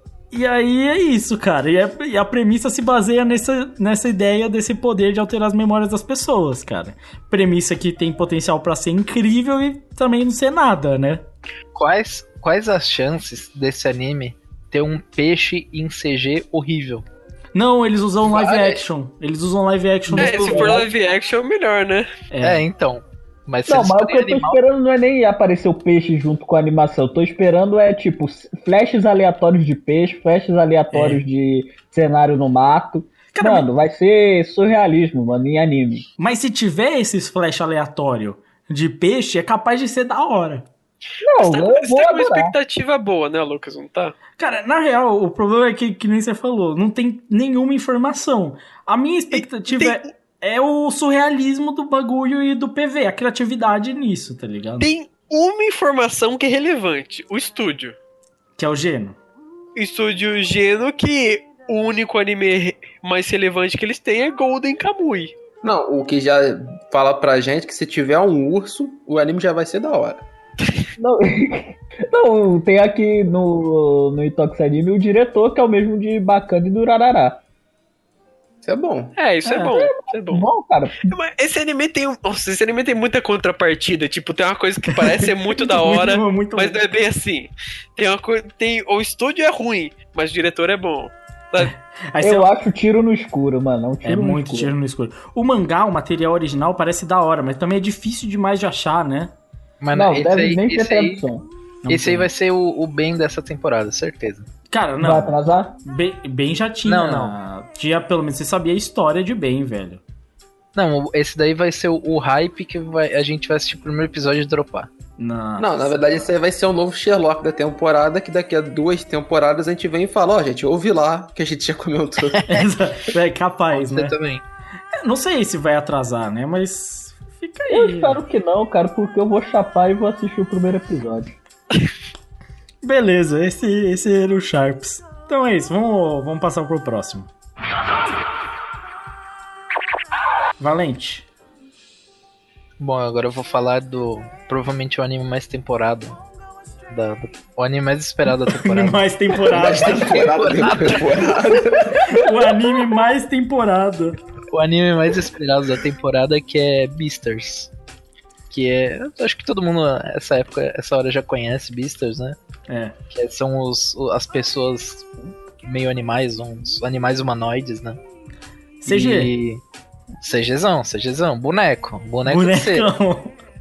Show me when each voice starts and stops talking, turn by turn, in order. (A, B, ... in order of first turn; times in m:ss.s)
0:00.3-0:11.2 A
0:11.8-0:17.0 B
0:17.5-0:20.8 A
0:18.2-0:18.8 C
0:20.1-0:20.9 D
0:20.2-0:22.1 E
0:22.3-0:22.6 A
0:22.4-0:24.6 B
0:23.7-0:36.1 D
0:30.9-0:31.2 A
0:33.3-0:33.7 A
0:36.2-0:40.7 A
0:41.2-0:42.5 D
0:41.4-0:44.2 E
0:44.4-0:54.9 A
0:49.3-0:50.1 E
0:54.8-0:58.0 E
0:58.6-0:59.2 A
0:59.8-1:05.3 E
1:05.6-1:10.2 C
1:11.0-1:17.4 D
1:18.6-1:19.1 C
1:19.2-1:20.5 E
1:19.5-1:19.7 A
1:19.6-1:21.2 D
1:21.1-1:31.7 E
1:25.0-1:26.8 A
1:31.6-1:32.5 A
1:32.2-1:34.7 D
1:34.0-1:39.3 A
1:39.8-1:41.2 B
1:39.9-1:41.5 D
1:41.8-1:42.3 A
1:41.9-1:44.5 B
1:44.7-1:50.0 A
1:45.0-1:45.8 D
1:46.9-1:47.3 B
1:50.8-1:54.9 B
1:55.2-1:55.7 A
1:55.6-2:02.4 C
2:02.5-2:04.2 A
2:03.7-2:04.4 B
2:04.9-2:08.2 A
2:07.7-2:11.4 D
2:12.8-2:17.3 A
2:20.6-2:21.3 A
2:22.8-2:26.2 B
2:26.9-2:31.4 B
2:28.5-2:31.0 A
2:29.5-2:32.1 C
2:31.9-2:34.2 A
2:34.5-2:37.7 B
2:38.5-2:42.4 B
2:42.7-2:43.0 A
2:43.1-2:45.1 B
2:45.6-2:48.0 B
2:48.8-2:49.3 A
2:48.8-2:49.6 B
2:50.2-2:52.9 B
2:52.2-2:53.4 A